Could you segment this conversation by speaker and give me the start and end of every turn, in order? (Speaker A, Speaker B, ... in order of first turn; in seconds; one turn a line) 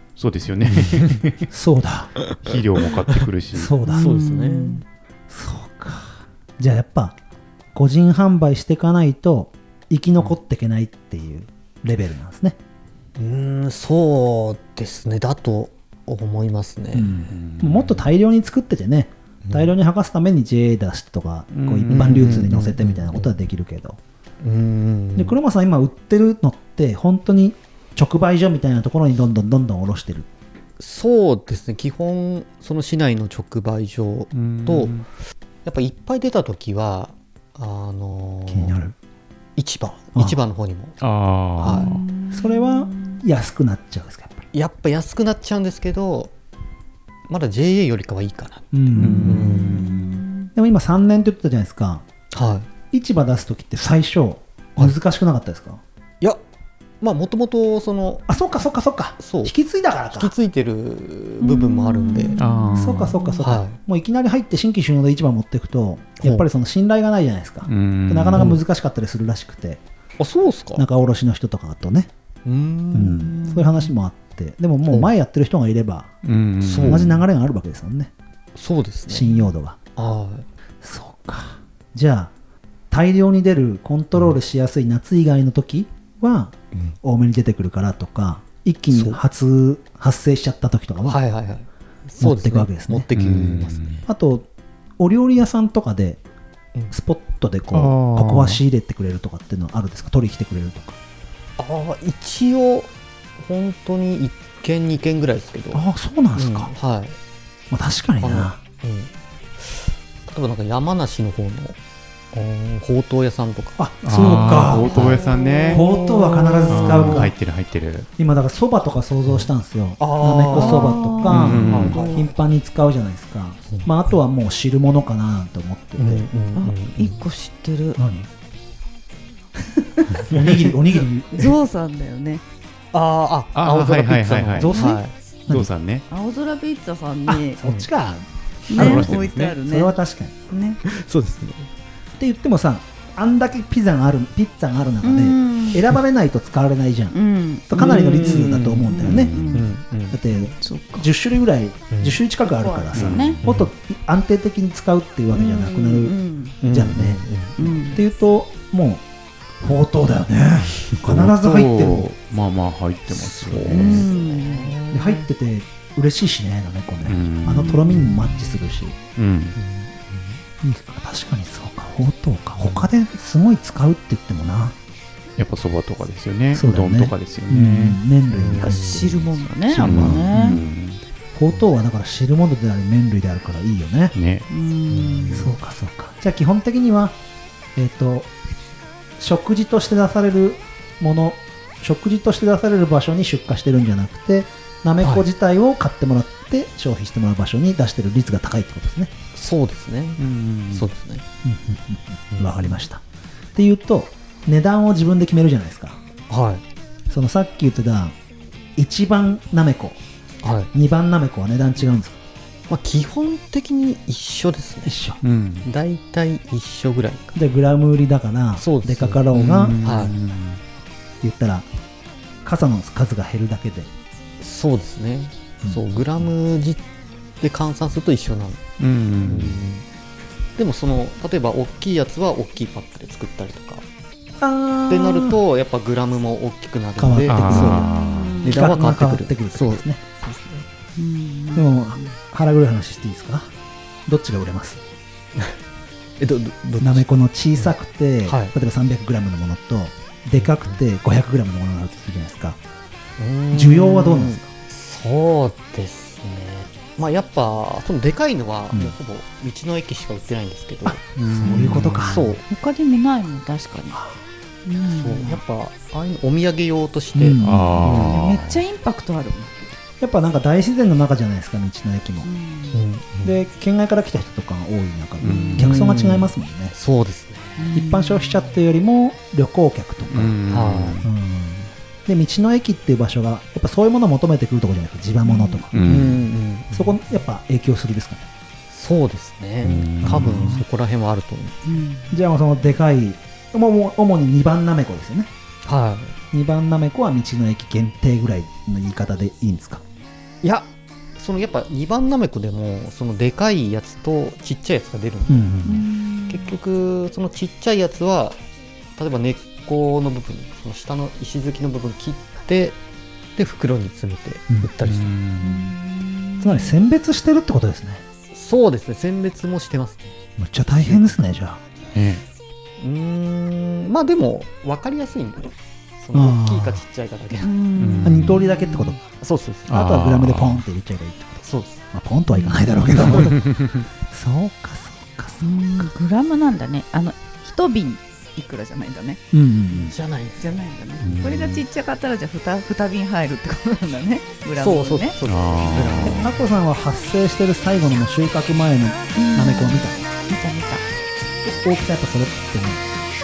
Speaker A: 0.1-1.5
Speaker B: 0.7-1.1
Speaker C: 1.5-2.1
Speaker A: 2.4-3.7
Speaker C: 3.5-4.1
Speaker D: 3.8-4.8
Speaker B: 3.9-4.8
Speaker C: 5.3-7.2
Speaker C: 7.7-12.6
Speaker B: 13.2-17.1
Speaker C: 16.9-24.0
Speaker A: 17.3-18.1
Speaker B: 19.4-19.7
Speaker A: 21.5-22.4
Speaker B: 21.9-23.3
Speaker B: 24.4-25.4
Speaker C: 25.1-30.2
Speaker B: 30.8-35.0
Speaker A: 34.3-35.0
Speaker B: 35.6-38.8
Speaker C: 38.5-38.9
Speaker B: 39.5-41.0
Speaker A: 41.0-42.0
Speaker C: 41.6-44.5
Speaker B: 41.6-42.0
Speaker D: 41.8-43.2
Speaker B: 44.5-46.3
Speaker B: 47.3-50.0
Speaker C: 48.7-52.0
Speaker D: 49.0-50.5
Speaker A: 49.0-49.4
Speaker B: 52.3-52.7
Speaker C: 52.9-55.8
Speaker B: 57.0-58.3
Speaker C: 58.3-60.3
Speaker B: 59.2-62.4
Speaker D: 61.4-63.4
Speaker A: 62.4-63.1
Speaker C: 62.7-69.8
Speaker B: 63.4-63.8
Speaker A: 67.7-68.5
Speaker B: 68.3-68.6
Speaker B: 70.2-70.8
Speaker C: 70.7-72.1
Speaker B: 72.4-73.5
Speaker C: 72.9-76.1
Speaker A: 76.2-77.1
Speaker B: 76.6-77.2
Speaker C: 76.8-78.1
Speaker B: 78.5-79.4
Speaker C: 79.1-79.8
Speaker B: 80.0-80.5
Speaker C: 80.8-82.3
Speaker C: 82.9-91.2
Speaker B: 88.9-89.2
Speaker B: 91.0-94.0
Speaker C: 92.2-93.1
Speaker A: 93.2-94.0
Speaker C: 94.0-94.5
Speaker C: 95.0-96.2
Speaker C: 96.9-101.0
Speaker A: 97.7-98.6
Speaker B: 101.6-105.8
Speaker C: 105.7-106.7
Speaker B: 106.3-107.2
Speaker C: 107.7-108.6
Speaker B: 108.2-111.8
Speaker B: 112.3-117.3
Speaker C: 113.8-115.2
Speaker A: 114.0-115.8
Speaker C: 115.7-117.3
Speaker A: 116.7-118.1
Speaker C: 118.2-126.3
Speaker B: 119.2-122.3
Speaker D: 120.5-122.2
Speaker A: 121.3-122.0
Speaker B: 123.7-124.2
Speaker B: 126.0-127.2
Speaker D: 126.5-128.0
Speaker C: 128.0-128.3
Speaker C: 130.0-131.5
Speaker B: 130.1-130.8
Speaker D: 131.3-132.4
Speaker B: 132.9-135.1
Speaker A: 133.5-134.7
Speaker C: 134.6-135.7
Speaker D: 134.7-135.0
Speaker A: 135.5-136.0
Speaker D: 136.1-137.6
Speaker C: 137.3-140.4
Speaker B: 137.6-137.9
Speaker D: 138.7-139.9
Speaker B: 138.7-139.2
Speaker A: 138.7-139.6
Speaker D: 140.5-140.8
Speaker B: 140.8-141.7
Speaker C: 142.2-147.2
Speaker D: 145.0-145.8
Speaker D: 147.1-149.7
Speaker C: 147.7-149.3
Speaker B: 147.7-150.5
Speaker A: 149.0-149.7
Speaker C: 150.1-156.1
Speaker D: 150.6-151.1
Speaker B: 151.9-152.2
Speaker D: 152.6-153.4
Speaker B: 152.8-153.7
Speaker A: 152.9-153.4
Speaker D: 155.3-156.6
Speaker B: 156.6-157.9
Speaker C: 156.7-157.2
Speaker D: 157.6-158.0
Speaker C: 157.9-159.0
Speaker C: 159.6-162.1
Speaker A: 161.1-164.1
Speaker B: 163.1-165.3
Speaker D: 163.7-164.8
Speaker C: 164.9-168.9
Speaker A: 167.0-168.1
Speaker A: 169.2-169.6
Speaker B: 169.5-170.4
Speaker C: 170.6-174.8
Speaker B: 172.6-172.9
Speaker A: 175.4-178.0
Speaker C: 176.5-180.6
Speaker B: 178.3-179.3
Speaker D: 178.6-180.6
Speaker A: 179.8-181.0
Speaker C: 181.3-184.1
Speaker A: 184.1-184.5
Speaker D: 184.5-185.5
Speaker B: 184.9-185.5
Speaker C: 185.3-187.1
Speaker C: 187.7-188.3
Speaker C: 189.2-199.1
Speaker B: 199.3-201.2
Speaker A: 200.2-200.9
Speaker C: 201.4-203.0
Speaker B: 202.3-202.8
Speaker C: 203.5-206.0
Speaker B: 206.3-206.6
Speaker C: 207.1-208.1
Speaker C: 208.8-210.0
Speaker B: 210.4-210.7
Speaker C: 210.7-212.2
Speaker B: 212.7-215.0
Speaker C: 214.8-215.2
Speaker A: 215.2-215.7
Speaker B: 215.6-217.3
Speaker C: 217.3-219.8
Speaker B: 218.6-219.2
Speaker A: 219.3-220.6
Speaker B: 219.8-220.1
Speaker C: 221.2-221.7
Speaker C: 222.4-223.9
Speaker B: 224.4-226.8
Speaker B: 227.4-228.6
Speaker A: 228.8-229.6
Speaker B: 229.2-229.8
Speaker B: 230.6-233.8
Speaker C: 234.4-235.4
Speaker B: 234.9-240.6
Speaker C: 237.0-237.9
Speaker A: 237.2-238.5
Speaker D: 237.8-238.6
Speaker C: 238.4-240.0
Speaker D: 240.9-241.7
Speaker C: 241.5-243.5
Speaker C: 244.1-244.8
Speaker B: 246.2-247.0
Speaker C: 246.8-252.6
Speaker B: 248.2-248.5
Speaker B: 250.4-250.8
Speaker B: 253.2-262.4
Speaker C: 253.5-254.5
Speaker C: 260.8-262.2
Speaker A: 261.2-262.1
Speaker D: 261.4-264.1
Speaker D: 264.6-265.4
Speaker B: 264.9-268.3
Speaker C: 267.1-267.9
Speaker A: 267.4-268.6
Speaker D: 267.9-269.7
Speaker C: 270.0-272.3
Speaker D: 272.2-272.8
Speaker B: 272.7-273.4
Speaker C: 273.2-276.7
Speaker A: 275.2-275.7
Speaker D: 275.2-275.6
Speaker B: 275.6-277.6
Speaker D: 277.6-278.5
Speaker C: 277.7-280.3
Speaker A: 280.1-281.1
Speaker B: 280.5-281.1
Speaker C: 281.0-286.0
Speaker D: 285.2-285.7
Speaker A: 285.7-286.2
Speaker B: 285.8-287.0
Speaker C: 286.7-288.2
Speaker B: 288.7-291.6
Speaker A: 289.6-290.6
Speaker C: 290.0-290.6
Speaker D: 291.6-292.2
Speaker C: 292.1-295.3
Speaker B: 295.6-296.2
Speaker C: 296.3-299.8
Speaker B: 300.4-305.6
Speaker C: 305.3-305.8
Speaker D: 305.6-306.6
Speaker B: 306.3-308.4
Speaker B: 308.9-312.8
Speaker B: 313.4-315.1
Speaker A: 314.8-315.6
Speaker D: 315.4-316.7
Speaker C: 316.4-318.0
Speaker B: 318.3-320.1
Speaker C: 320.4-321.6
Speaker B: 320.7-321.2
Speaker A: 321.9-322.2
Speaker B: 322.8-327.6
Speaker C: 326.1-326.8
Speaker D: 327.4-329.0
Speaker A: 327.8-328.4
Speaker C: 328.0-329.0
Speaker B: 329.2-329.7
Speaker A: 329.7-330.6
Speaker C: 329.7-333.4
Speaker B: 331.4-331.9
Speaker D: 332.3-332.7
Speaker B: 332.8-333.4
Speaker A: 333.3-333.8
Speaker C: 334.1-335.9
Speaker D: 335.4-339.2
Speaker C: 339.3-339.9
Speaker B: 339.7-340.5
Speaker D: 340.4-345.2
Speaker A: 341.0-341.6
Speaker B: 344.6-346.3
Speaker A: 345.2-346.2
Speaker C: 346.1-350.1
Speaker D: 349.1-350.8
Speaker C: 351.4-352.9